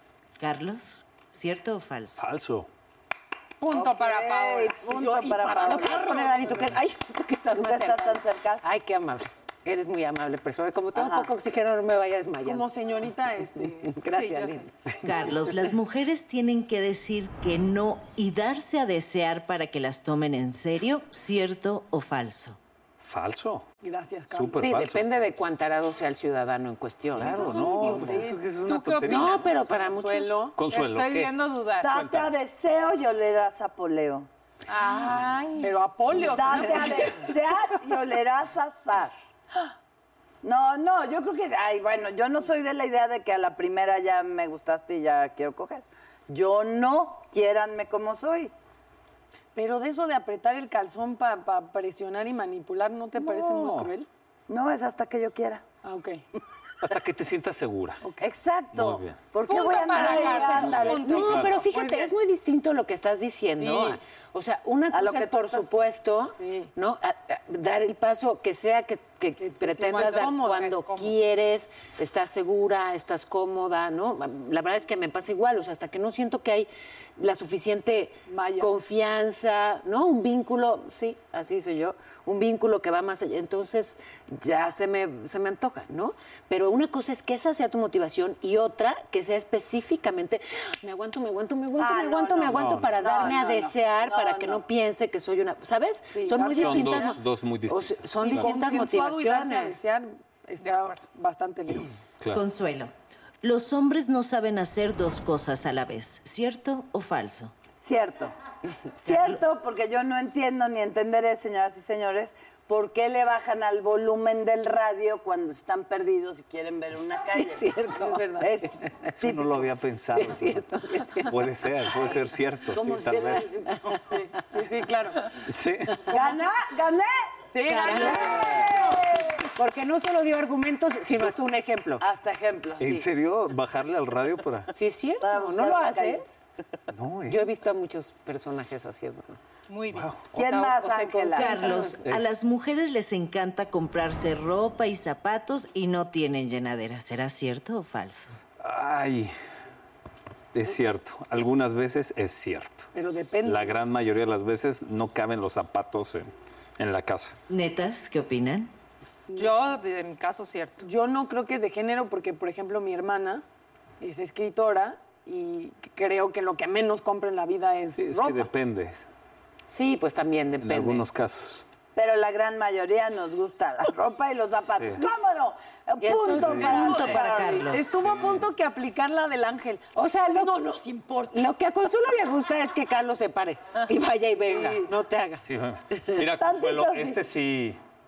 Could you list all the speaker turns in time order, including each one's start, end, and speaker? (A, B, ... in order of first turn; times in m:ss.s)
0:00.4-0:02.2 A
0:02.2-0:02.7 B
0:03.6-0:04.8 C
0:03.7-0:06.2 D
0:04.8-0:06.7 E
0:05.4-0:12.7 F
0:07.5-0:08.6 D
0:10.9-0:11.3 D
0:12.4-0:14.0 E
0:13.8-0:15.5 F
0:14.1-0:14.6 C
0:15.0-0:22.6 A
0:23.0-0:23.7 B
0:23.8-0:24.6 E
0:24.3-0:25.1 B
0:24.6-0:28.2 F
0:27.1-0:29.6 B
0:27.3-0:28.4 E
0:28.7-0:29.4 C
0:29.1-0:30.5 F
0:29.7-0:30.6 E
0:30.6-0:32.3 B
0:30.7-0:31.9 C
0:31.8-0:34.3 D
0:34.7-0:35.8 C
0:35.6-0:37.3 E
0:36.1-0:39.1 D
0:40.4-0:48.5 D
0:49.5-0:54.1 E
0:53.1-0:53.9 B
0:54.5-0:55.6 D
0:55.8-0:56.2 E
0:56.8-0:58.0 B
0:58.2-1:01.3 D
0:58.7-0:59.3 B
0:59.4-1:01.2 C
0:59.5-1:02.1 E
1:00.0-1:39.8 F
1:00.6-1:01.6 B
1:03.6-1:04.0 E
1:04.9-1:05.7 D
1:06.4-1:06.7 E
1:09.4-1:10.6 E
1:09.8-1:11.1 C
1:18.3-1:18.7 E
1:31.8-1:34.6 D
1:32.5-1:33.2 B
1:36.1-1:37.2 E
1:36.6-1:38.6 B
1:38.2-1:41.9 E
1:40.6-1:41.0 C
1:42.3-1:42.9 A
1:43.4-1:47.5 A
1:47.8-1:48.3 D
1:49.0-1:49.4 A
1:49.0-1:57.7 D
1:57.3-1:58.9 F
1:58.4-1:59.5 D
1:59.2-2:00.7 B
2:00.2-2:01.4 F
2:01.2-2:03.5 B
2:02.7-2:03.7 D
2:02.9-2:05.3 E
2:05.4-2:06.0 B
2:06.1-2:07.3 D
2:07.5-2:09.0 E
2:07.6-2:08.3 A
2:07.8-2:08.5 F
2:07.9-2:09.4 D
2:09.4-2:12.0 F
2:12.0-2:13.0 D
2:12.8-2:14.7 B
2:14.7-2:16.4 F
2:15.2-2:16.2 D
2:16.9-2:17.5 B
2:17.3-2:19.4 F
2:19.7-2:20.1 C
2:19.9-2:20.2 B
2:20.3-2:21.6 D
2:20.3-2:22.0 F
2:21.3-2:28.4 A
2:28.6-2:29.3 B
2:30.5-2:32.9 B
2:32.9-2:33.8 E
2:33.4-2:37.3 B
2:37.5-2:38.7 A
2:39.3-2:40.8 C
2:40.8-2:43.4 E
2:44.0-2:48.5 E
2:48.0-2:49.0 B
2:49.7-2:51.0 F
2:50.6-2:51.6 B
2:51.9-2:57.8 D
2:54.8-2:55.0 B
2:56.0-2:57.2 F
2:56.2-3:01.4 E
2:56.4-2:56.8 B
2:56.6-2:58.0 A
2:57.8-2:58.5 B
2:59.9-3:06.2 F
3:05.4-3:07.8 B
3:06.4-3:07.2 D